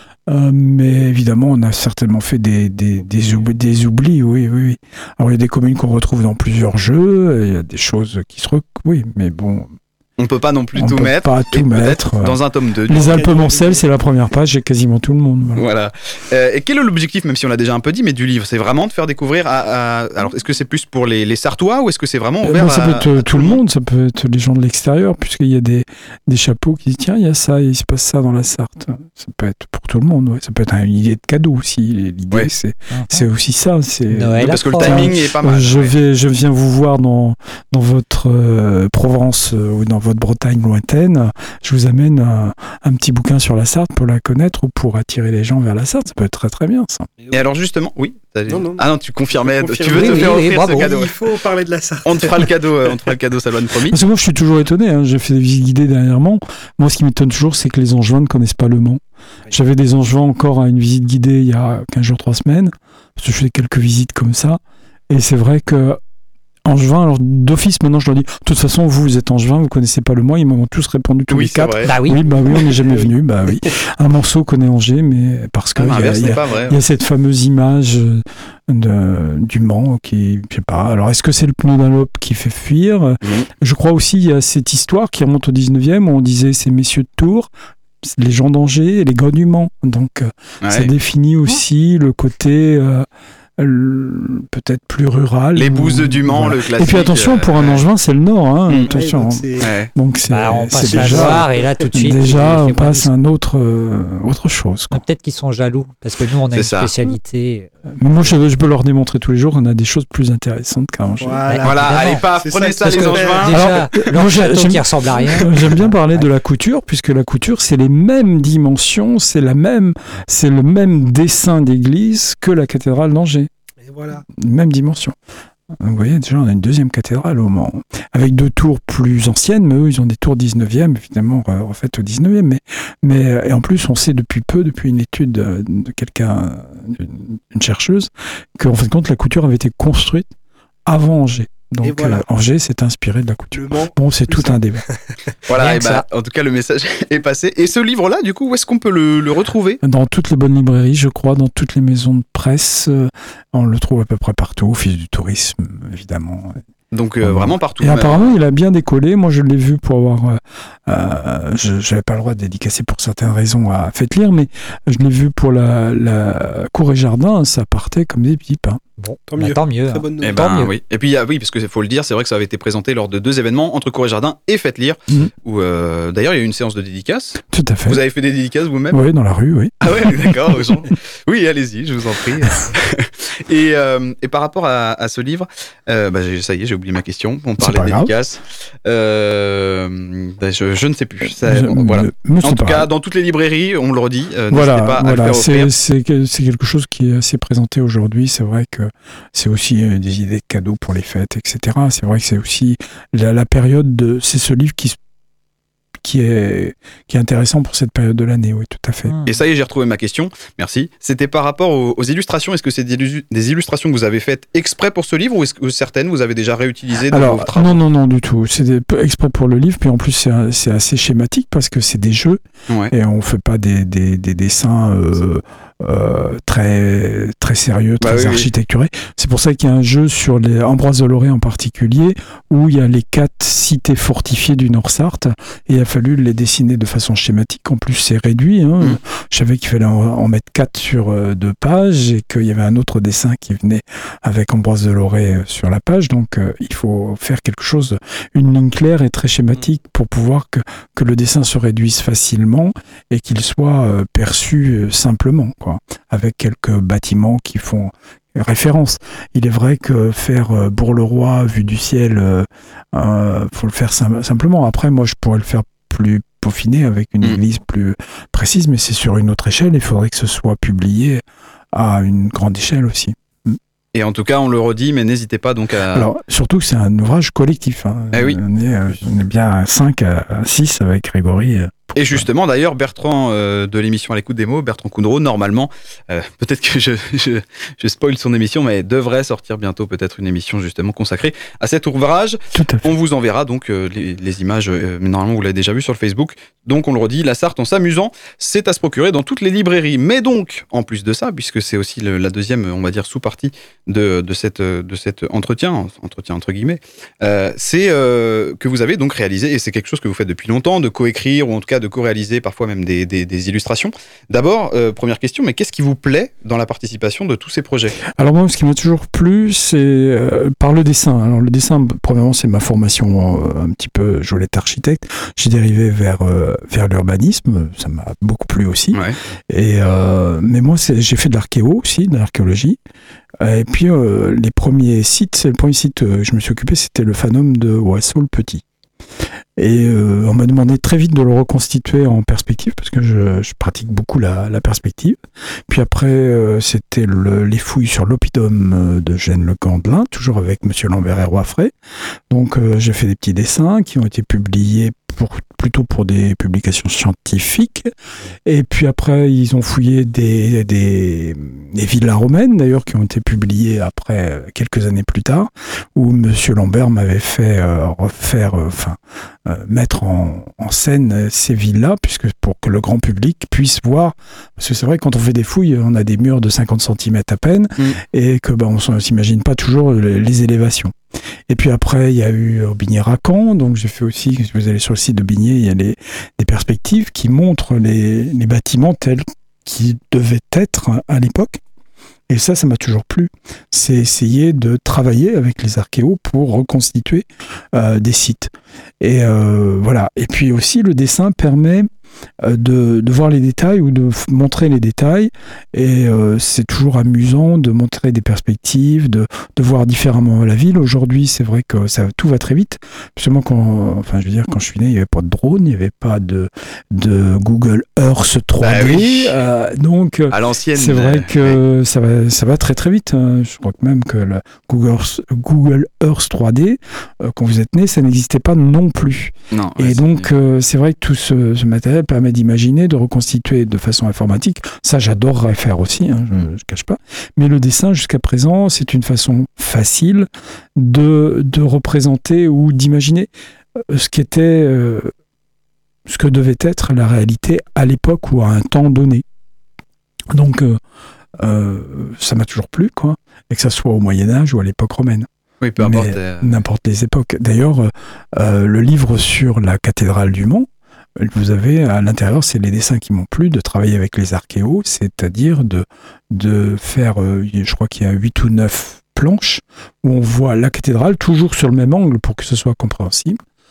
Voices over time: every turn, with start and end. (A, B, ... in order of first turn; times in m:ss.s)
0:00.3-0:09.7 A
0:10.2-0:13.2 B
0:10.8-0:15.6 A
0:12.9-0:13.9 C
0:15.6-0:23.6 B
0:22.4-0:47.1 A
0:32.9-0:33.2 D
0:34.1-0:35.1 D
0:34.4-0:36.0 B
0:47.2-0:47.5 C
0:47.3-0:51.2 B
0:48.5-0:48.8 C
0:49.4-0:52.5 C
0:49.9-0:50.9 D
0:52.0-0:54.0 B
0:53.9-1:06.0 A
1:06.6-1:27.5 A
1:11.3-1:11.9 B
1:11.9-1:12.2 D
1:12.2-1:13.1 C
1:15.8-1:16.8 B
1:23.2-1:23.5 B
1:28.0-1:33.1 A
1:30.6-1:30.9 B
1:33.6-1:45.0 A
1:35.6-1:37.8 B
1:38.8-1:39.7 C
1:39.6-1:39.9 B
1:40.3-1:43.1 D
1:40.8-1:42.2 C
1:44.9-1:48.3 D
1:46.5-1:46.9 B
1:48.0-1:51.4 A
1:51.2-1:54.1 C
1:51.5-1:52.3 D
1:51.6-1:53.6 B
1:52.8-1:56.3 D
1:53.5-2:03.5 A
1:55.2-1:55.5 C
2:03.8-2:04.2 C
2:04.3-2:05.2 A
2:05.8-2:20.3 A
2:20.9-2:24.8 A
2:21.8-2:22.2 C
2:23.5-2:25.0 C
2:25.5-2:29.8 B
2:25.6-2:26.0 D
2:29.8-2:36.6 A
2:36.9-2:38.4 B
2:37.2-2:48.8 A
2:49.0-2:50.7 D
2:49.3-2:50.6 C
2:50.2-2:59.0 B
2:57.5-2:58.0 A
2:58.9-3:00.9 A
2:59.8-3:15.7 B
3:07.6-3:08.1 A
3:11.4-3:12.9 A
3:14.5-3:25.0 A
3:26.0-3:29.1 A
3:29.1-3:29.4 D
3:29.3-3:37.8 B
3:37.1-4:33.6 A
3:42.7-3:42.9 B
3:48.0-3:48.5 B
4:33.9-4:36.1 B
4:35.9-4:42.3 A
4:38.1-4:38.4 B
4:42.0-5:18.0 B
4:52.6-4:52.9 A
5:18.0-5:32.8 A
5:33.4-5:38.6 A
5:39.6-5:45.2 A
5:45.7-5:51.7 A
5:52.3-5:57.9 A
5:58.5-6:20.9 A
6:21.5-6:31.6 A
6:32.3-6:41.9 A
6:42.4-7:25.1 A
6:58.6-6:59.4 B
7:00.3-7:01.6 B
7:09.5-7:10.3 B
7:26.1-7:29.2 A
7:30.3-7:30.8 A
7:31.4-7:53.4 A
7:35.6-7:36.5 B